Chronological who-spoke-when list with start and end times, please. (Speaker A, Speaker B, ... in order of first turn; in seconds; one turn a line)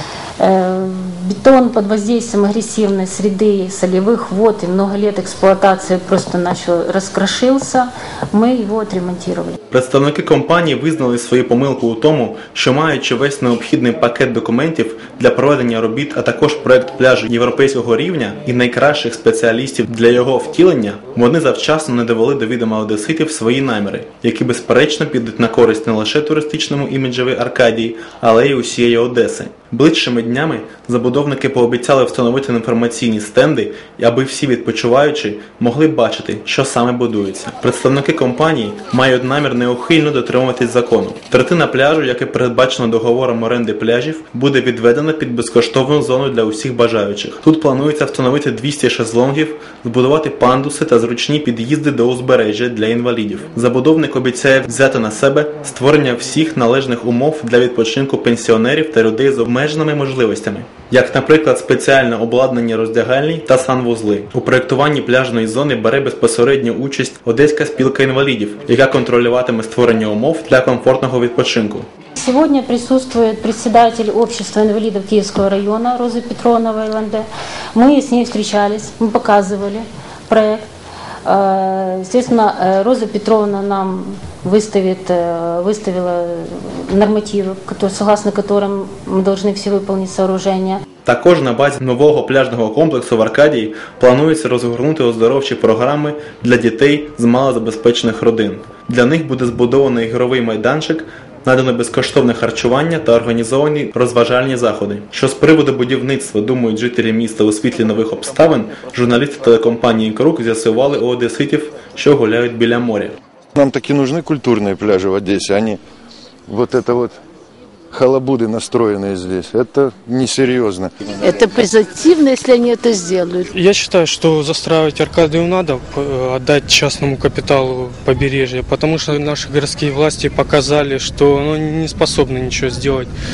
Speaker A: 0.4-9.6
Speaker B: 9.7-71.9
Speaker A: 72.2-80.7
Speaker A: 81.2-90.8
Speaker B: 91.0-113.2
Speaker C: 113.5-115.8
Speaker C: 116.5-117.2
Speaker C: 117.9-120.9
Speaker D: 121.2-123.5
Speaker E: 123.5-133.1